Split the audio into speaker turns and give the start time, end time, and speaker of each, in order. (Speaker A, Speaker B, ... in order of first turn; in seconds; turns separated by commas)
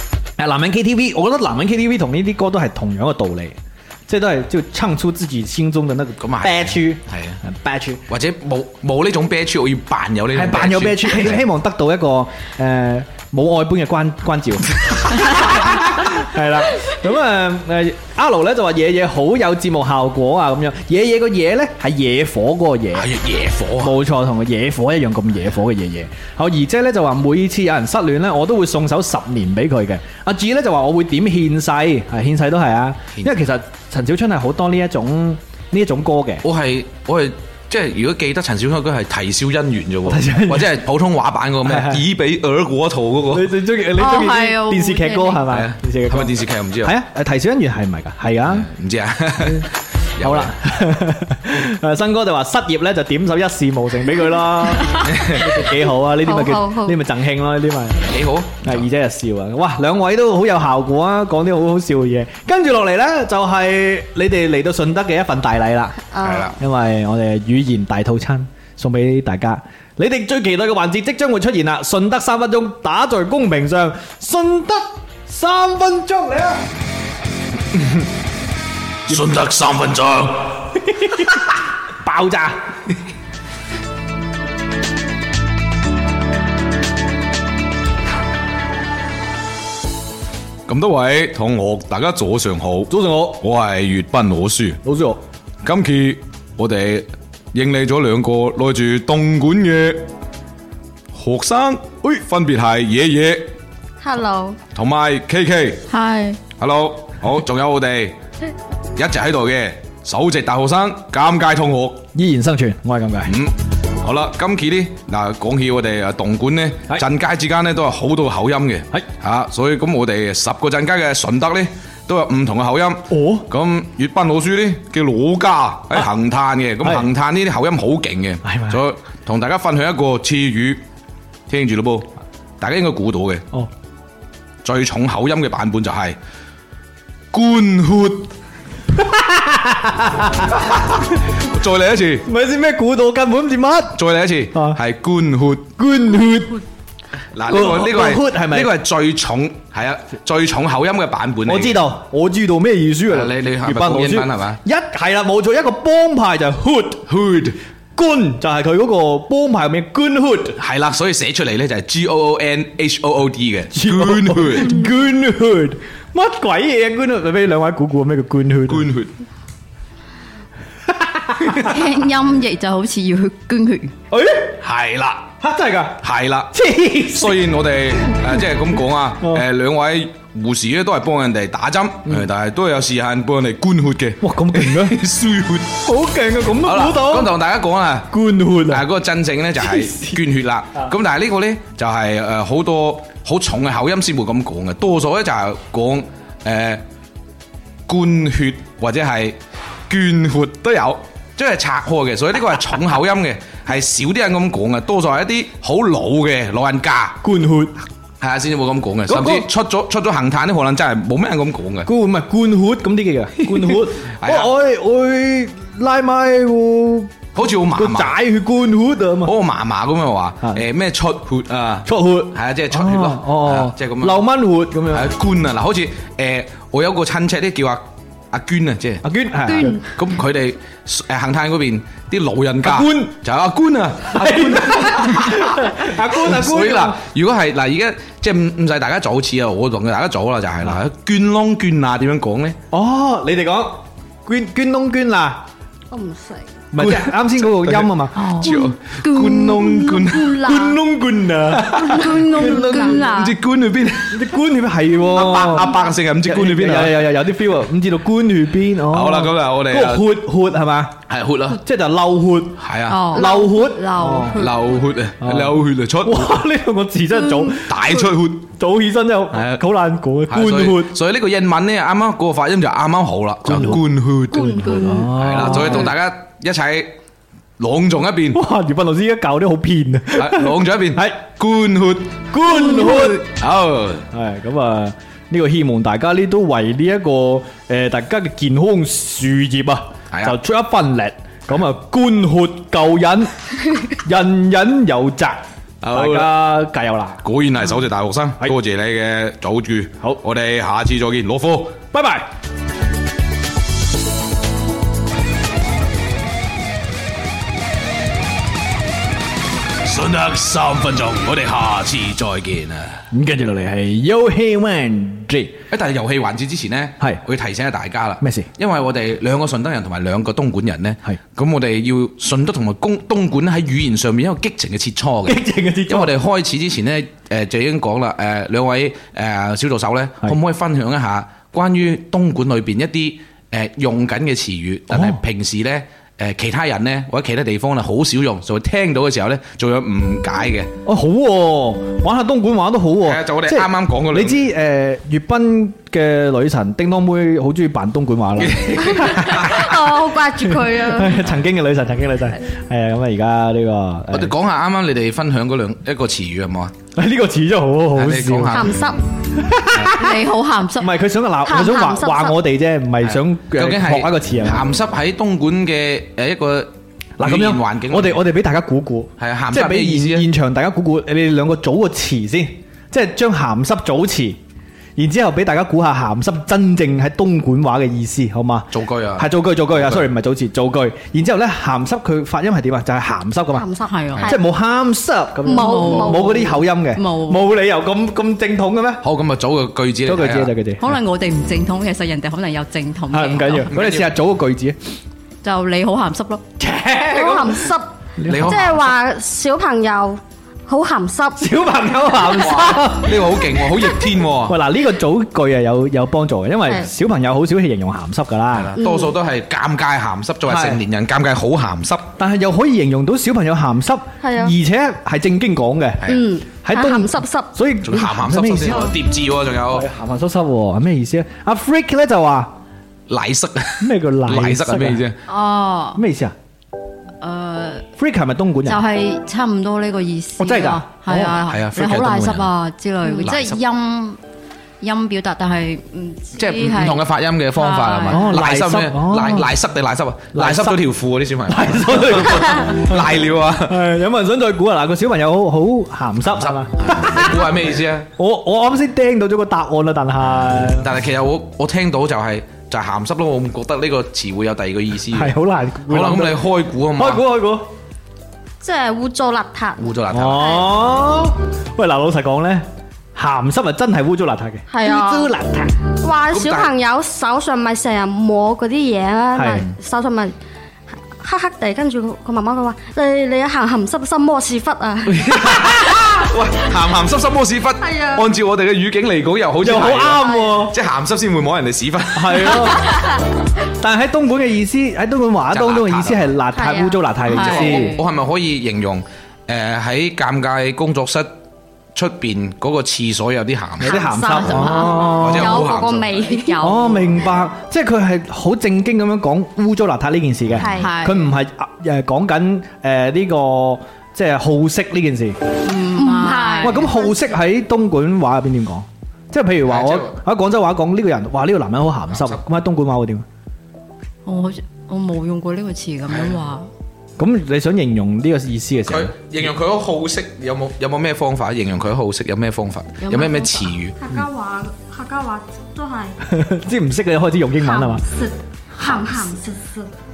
Speaker A: 0.4-8.0, Speaker B: 6.2-7.4, Speaker B: 8.1-11.4, Speaker A: 10.3-23.1, Speaker B: 23.0-23.9, Speaker A: 23.8-36.5, Speaker B: 36.4-43.5, Speaker A: 40.1-40.8, Speaker A: 41.6-42.0, Speaker A: 43.3-48.7, Speaker C: 43.9-45.5, Speaker B: 45.5-47.0, Speaker B: 48.5-50.5, Speaker A: 49.4-49.7, Speaker A: 50.2-66.0, Speaker B: 55.0-55.5, Speaker D: 56.2-57.0, Speaker B: 58.1-58.8, Speaker D: 66.1-66.5, Speaker B: 66.2-66.5, Speaker A: 66.6-76.7, Speaker B: 77.8-78.0, Speaker B: 79.1-80.8, Speaker A: 80.9-81.4, Speaker A: 82.0-82.6, Speaker B: 90.7-94.8, Speaker A: 92.9-93.4, Speaker A: 94.8-95.2, Speaker B: 95.6-100.0, Speaker B: 101.1-103.5, Speaker D: 104.0-104.6, Speaker B: 104.7-105.8, Speaker C: 105.9-106.4, Speaker B: 106.6-108.2, Speaker B: 109.0-112.0, Speaker A: 112.2-113.4, Speaker B: 113.3-130.8, Speaker A: 123.1-123.5, Speaker A: 126.8-127.1, Speaker A: 128.4-128.8, Speaker B: 131.5-132.1, Speaker B: 132.6-133.4, Speaker B: 134.6-136.2, Speaker B: 137.3-138.3, Speaker A: 138.9-140.5, Speaker B: 140.5-142.3, Speaker A: 142.3-144.0, Speaker B: 143.9-145.7, Speaker A: 144.5-144.8, Speaker A: 145.8-146.6, Speaker B: 147.3-151.8, Speaker A: 147.5-148.8, Speaker A: 151.4-157.1, Speaker B: 153.1-154.6, Speaker B: 157.1-157.6, Speaker A: 157.9-160.6, Speaker B: 160.6-164.8, Speaker A: 163.7-168.9, Speaker B: 168.7-169.1, Speaker A: 170.9-171.7, Speaker C: 171.5-173.9, Speaker A: 174.1-174.6, Speaker B: 174.6-175.3, Speaker A: 175.4-177.5, Speaker B: 176.0-176.6, Speaker B: 177.1-185.8, Speaker A: 184.2-185.0, Speaker A: 185.8-187.3, Speaker B: 186.6-188.2, Speaker A: 188.1-188.8, Speaker B: 188.7-196.8, Speaker A: 189.6-190.2, Speaker B: 197.9-199.4, Speaker B: 199.9-207.2, Speaker A: 207.2-207.8, Speaker B: 208.2-211.9, Speaker A: 209.1-209.5, Speaker A: 211.8-219.4, Speaker B: 213.5-214.5, Speaker B: 217.3-218.2, Speaker B: 219.2-224.3, Speaker A: 221.9-225.1, Speaker B: 224.9-229.0, Speaker A: 229.0-229.8, Speaker C: 229.5-229.8, Speaker B: 229.9-242.6, Speaker A: 232.6-233.2, Speaker A: 234.1-237.0, Speaker A: 242.7-245.4, Speaker D: 245.9-246.5, Speaker A: 246.7-248.5, Speaker B: 246.8-250.8, Speaker C: 248.2-250.1, Speaker D: 250.1-250.8, Speaker A: 250.4-253.0, Speaker D: 251.7-253.0, Speaker C: 251.8-253.4, Speaker B: 253.0-254.3, Speaker A: 254.1-264.4, Speaker B: 255.1-257.1, Speaker B: 258.9-260.1, Speaker B: 261.1-261.6, Speaker B: 262.6-263.2, Speaker C: 262.9-264.7, Speaker B: 264.4-266.4, Speaker A: 265.2-271.0, Speaker B: 267.7-268.5, Speaker B: 269.3-269.6, Speaker B: 270.3-277.0, Speaker A: 273.4-276.0, Speaker D: 274.4-274.7, Speaker C: 274.7-275.0, Speaker B: 277.6-278.4, Speaker A: 278.3-281.3, Speaker B: 280.2-284.1, Speaker A: 282.3-283.2, Speaker A: 284.1-293.4, Speaker B: 290.1-290.4, Speaker A: 293.9-297.2, Speaker B: 295.8-296.4, Speaker B: 297.2-301.8, Speaker A: 301.9-302.3, Speaker B: 309.8-313.0, Speaker A: 313.1-315.6, Speaker B: 315.7-340.7, Speaker A: 318.2-318.5, Speaker A: 325.3-326.1, Speaker A: 334.9-335.2, Speaker A: 340.9-349.7, Speaker B: 343.0-344.4, Speaker B: 348.4-349.7, Speaker D: 348.8-351.2, Speaker A: 350.6-354.4, Speaker B: 354.1-356.7, Speaker A: 357.0-358.7, Speaker B: 357.9-358.7, Speaker D: 358.5-359.0, Speaker A: 359.3-360.3, Speaker C: 359.9-360.9, Speaker A: 360.8-364.6, Speaker D: 361.4-362.4, Speaker B: 363.0-368.2, Speaker A: 367.2-374.4, Speaker B: 369.2-370.3, Speaker A: 375.0-383.7, Speaker B: 378.7-380.1, Speaker D: 383.5-384.5, Speaker C: 383.9-384.3, Speaker A: 384.3-389.0, Speaker C: 385.4-387.4, Speaker D: 385.5-386.6, Speaker B: 389.0-390.5, Speaker A: 390.1-390.9, Speaker C: 390.8-393.7, Speaker A: 393.1-394.8, Speaker B: 393.7-394.1, Speaker C: 395.4-396.4, Speaker A: 396.6-398.7, Speaker D: 397.1-401.5, Speaker B: 398.3-398.9, Speaker A: 401.4-403.3, Speaker B: 402.2-404.6, Speaker A: 404.5-408.8, Speaker B: 408.5-412.1, Speaker D: 408.8-409.1, Speaker A: 410.4-410.8, Speaker A: 412.2-416.1, Speaker D: 414.2-414.6, Speaker D: 416.1-417.5, Speaker A: 416.6-419.0, Speaker B: 417.8-419.9, Speaker A: 419.7-422.5, Speaker B: 423.1-425.2, Speaker A: 423.8-425.0, Speaker C: 425.3-426.0, Speaker A: 425.9-426.4, Speaker C: 427.2-427.9, Speaker A: 428.0-428.9, Speaker C: 428.7-434.2, Speaker A: 430.4-431.4, Speaker B: 431.3-432.5, Speaker B: 433.2-433.6, Speaker C: 434.8-438.3, Speaker B: 436.4-443.8, Speaker A: 438.1-439.5, Speaker A: 440.3-440.8, Speaker A: 441.5-447.5, Speaker B: 446.4-448.1, Speaker A: 448.2-450.9, Speaker B: 450.3-455.4, Speaker A: 455.1-457.7, Speaker B: 455.9-457.2, Speaker D: 458.6-460.7, Speaker B: 459.8-460.6, Speaker A: 460.1-465.8, Speaker D: 464.7-465.3, Speaker D: 465.9-470.4, Speaker B: 466.3-466.7, Speaker A: 469.3-469.7, Speaker D: 471.1-475.4, Speaker B: 475.1-482.8, Speaker D: 477.8-478.3, Speaker A: 479.6-480.8, Speaker A: 482.1-482.9, Speaker A: 483.7-488.0, Speaker B: 485.5-486.3, Speaker D: 486.5-487.6, Speaker C: 487.3-488.0, Speaker B: 487.3-491.3, Speaker B: 491.9-496.1, Speaker A: 493.8-495.7, Speaker D: 493.8-496.7, Speaker C: 494.6-497.1, Speaker A: 496.6-505.4, Speaker D: 500.6-500.9, Speaker C: 500.7-501.3, Speaker C: 505.6-506.9, Speaker D: 505.9-507.4, Speaker A: 506.6-513.3, Speaker B: 509.7-510.2, Speaker B: 512.1-512.4, Speaker C: 514.3-516.7, Speaker B: 516.1-516.4, Speaker A: 517.2-519.1, Speaker B: 518.9-524.0, Speaker C: 523.0-523.7, Speaker D: 524.0-526.2, Speaker A: 526.2-528.0, Speaker D: 527.6-529.9